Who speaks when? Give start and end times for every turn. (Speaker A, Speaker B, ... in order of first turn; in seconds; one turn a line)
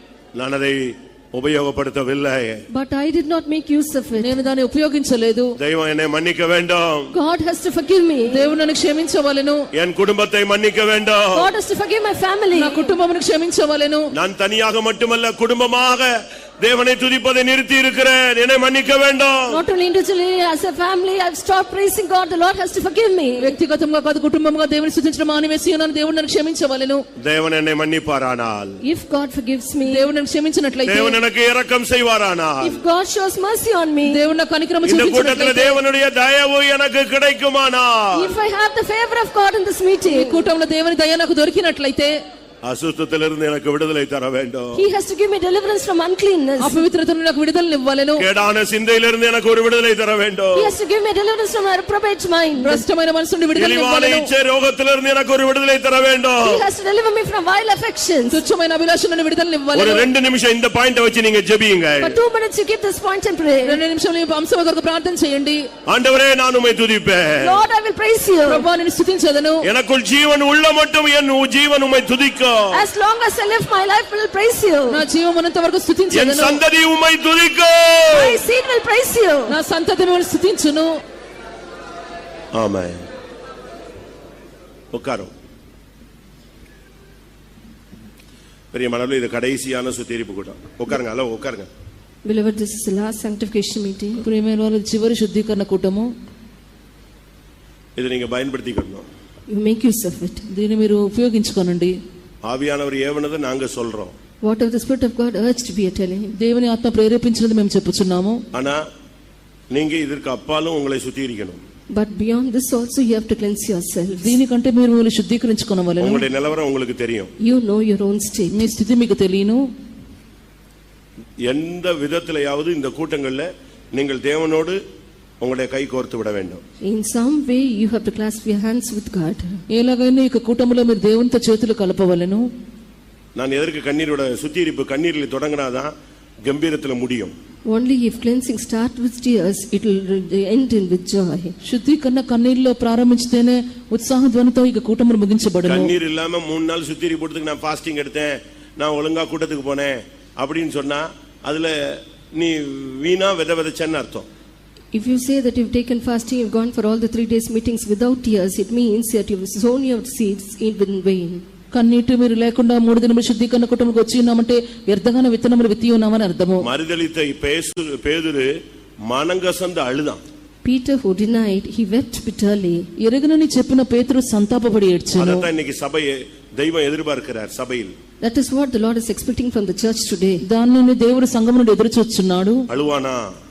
Speaker A: 0.3-2.6
Speaker B: 2.7-4.3
Speaker C: 4.2-5.6
Speaker A: 5.6-7.1
Speaker B: 7.1-8.5
Speaker C: 8.3-9.6
Speaker A: 9.8-11.5
Speaker B: 11.3-12.9
Speaker C: 12.5-14.1
Speaker A: 14.1-19.6
Speaker B: 19.5-23.5
Speaker C: 23.4-27.0
Speaker A: 27.2-28.8
Speaker B: 28.8-30.0
Speaker C: 29.9-31.2
Speaker A: 30.9-32.8
Speaker B: 32.6-34.2
Speaker C: 34.0-35.8
Speaker A: 34.8-38.3
Speaker B: 38.1-40.4
Speaker C: 40.1-42.2
Speaker A: 42.6-44.8
Speaker B: 44.8-46.8
Speaker C: 46.6-48.2
Speaker A: 48.2-50.7
Speaker B: 50.5-52.8
Speaker C: 52.6-54.3
Speaker A: 53.5-56.6
Speaker B: 56.4-58.4
Speaker C: 58.3-60.1
Speaker A: 59.7-62.2
Speaker B: 62.0-63.8
Speaker C: 63.6-65.7
Speaker A: 65.9-67.6
Speaker B: 67.4-68.6
Speaker C: 68.5-69.7
Speaker A: 69.6-72.8
Speaker B: 72.7-75.0
Speaker C: 74.9-76.6
Speaker A: 76.1-78.4
Speaker B: 78.1-79.6
Speaker C: 79.5-80.9
Speaker A: 82.5-83.0
Speaker A: 84.9-85.3
Speaker A: 88.7-91.7
Speaker B: 92.2-94.2
Speaker C: 94.2-96.1
Speaker A: 98.0-99.1
Speaker B: 99.5-100.5
Speaker C: 100.5-102.0
Speaker A: 102.4-104.1
Speaker B: 104.4-106.3
Speaker C: 106.4-108.4
Speaker A: 108.5-108.8
Speaker A: 109.7-111.6
Speaker B: 111.9-114.3
Speaker C: 114.2-116.2
Speaker A: 116.0-117.3
Speaker B: 117.4-118.7
Speaker C: 118.5-119.6
Speaker A: 121.5-124.8
Speaker A: 125.4-126.6
Speaker B: 126.8-129.6
Speaker C: 129.7-132.4
Speaker A: 133.4-135.9
Speaker A: 136.4-137.3
Speaker B: 137.7-141.6
Speaker C: 141.7-145.9
Speaker A: 145.7-154.3
Speaker B: 154.9-161.4
Speaker C: 161.7-166.7
Speaker A: 166.6-168.5
Speaker A: 169.1-170.2
Speaker B: 170.6-172.9
Speaker C: 173.0-175.5
Speaker A: 175.2-177.9
Speaker B: 178.2-180.4
Speaker C: 180.4-182.7
Speaker A: 182.7-183.3